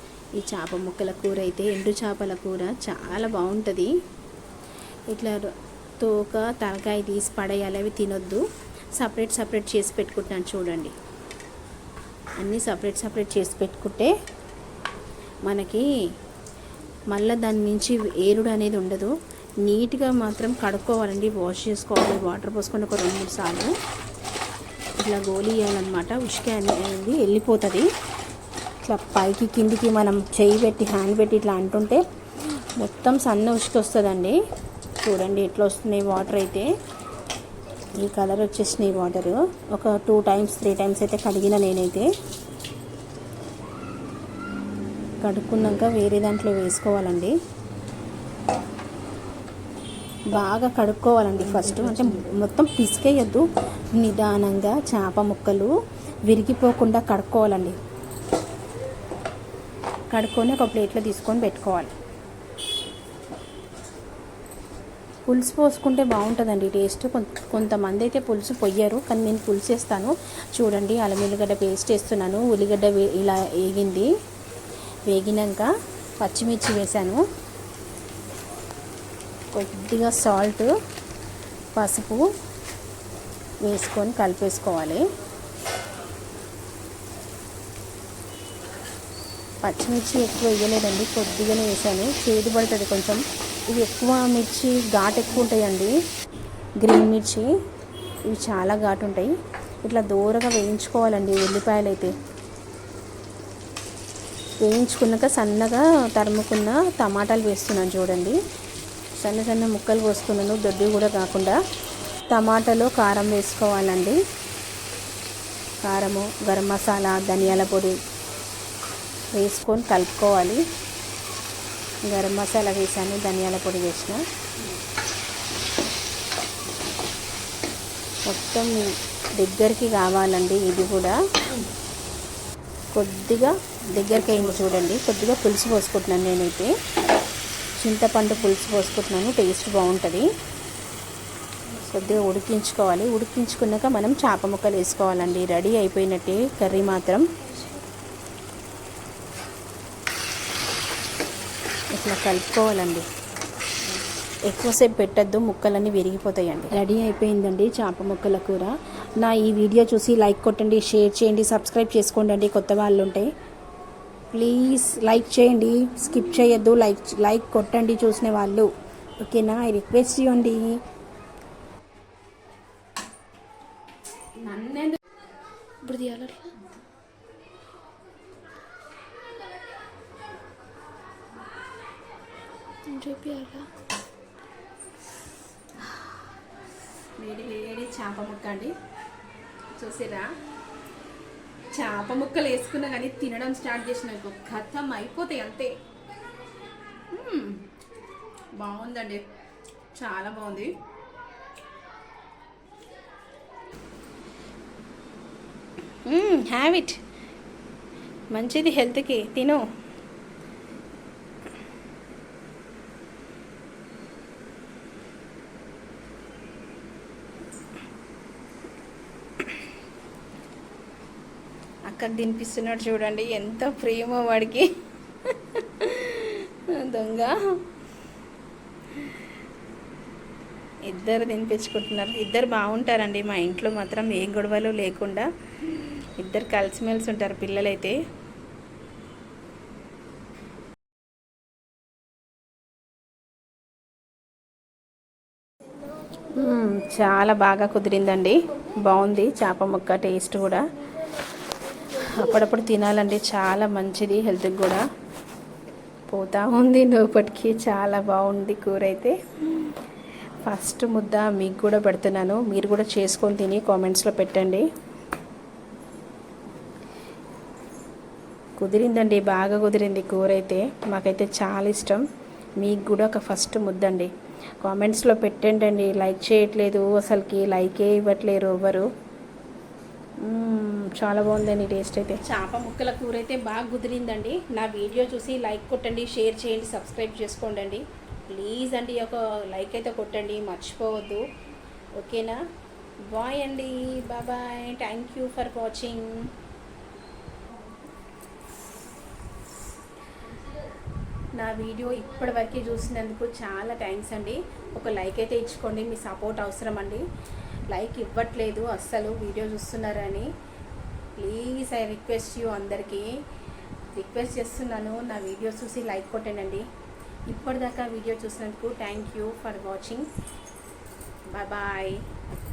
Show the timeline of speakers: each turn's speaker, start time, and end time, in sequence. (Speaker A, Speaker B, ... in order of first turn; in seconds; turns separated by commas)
Speaker A: 0.4-3.9, Speaker A: 5.1-8.4, Speaker A: 9.0-10.9, Speaker A: 12.4-14.1, Speaker A: 15.5-15.9, Speaker A: 17.1-19.1, Speaker A: 19.6-23.7, Speaker A: 25.0-27.9, Speaker A: 28.8-32.0, Speaker A: 32.8-34.4, Speaker A: 35.0-36.7, Speaker A: 38.0-42.1, Speaker A: 45.2-47.4, Speaker A: 50.3-55.7, Speaker A: 56.3-57.8, Speaker A: 60.1-61.9, Speaker A: 65.2-74.1, Speaker A: 75.1-77.2, Speaker A: 79.5-80.7, Speaker A: 81.8-82.2, Speaker A: 83.6-85.0, Speaker A: 89.6-96.0, Speaker A: 96.8-97.5, Speaker A: 98.3-99.3, Speaker A: 99.8-102.1, Speaker A: 104.6-108.4, Speaker A: 109.2-111.6, Speaker A: 112.3-114.2, Speaker A: 115.8-118.0, Speaker A: 119.3-120.6, Speaker A: 122.1-124.2, Speaker A: 128.3-131.2, Speaker A: 132.9-136.7, Speaker A: 137.8-140.3, Speaker A: 141.9-147.3, Speaker A: 151.9-153.1, Speaker A: 154.5-163.3, Speaker A: 164.3-168.7, Speaker A: 169.2-170.8, Speaker A: 174.4-175.0, Speaker A: 175.9-176.5, Speaker A: 182.9-183.7, Speaker A: 187.2-188.7, Speaker A: 189.8-190.3, Speaker A: 191.7-195.7, Speaker A: 197.1-197.6, Speaker A: 198.6-199.2, Speaker A: 200.0-200.7, Speaker A: 206.1-207.0, Speaker A: 208.3-209.6, Speaker A: 221.9-224.7, Speaker A: 225.3-227.4, Speaker A: 230.9-235.3, Speaker A: 236.2-238.0, Speaker A: 246.4-250.7, Speaker A: 251.9-254.8, Speaker A: 256.1-259.7, Speaker A: 260.4-264.7, Speaker A: 268.6-272.1, Speaker A: 272.6-278.9, Speaker A: 280.2-291.2, Speaker A: 292.0-292.4, Speaker A: 293.1-296.2, Speaker A: 301.4-307.1, Speaker A: 307.7-310.3, Speaker A: 311.2-313.1, Speaker A: 313.9-316.7, Speaker A: 317.3-320.1, Speaker A: 321.3-322.0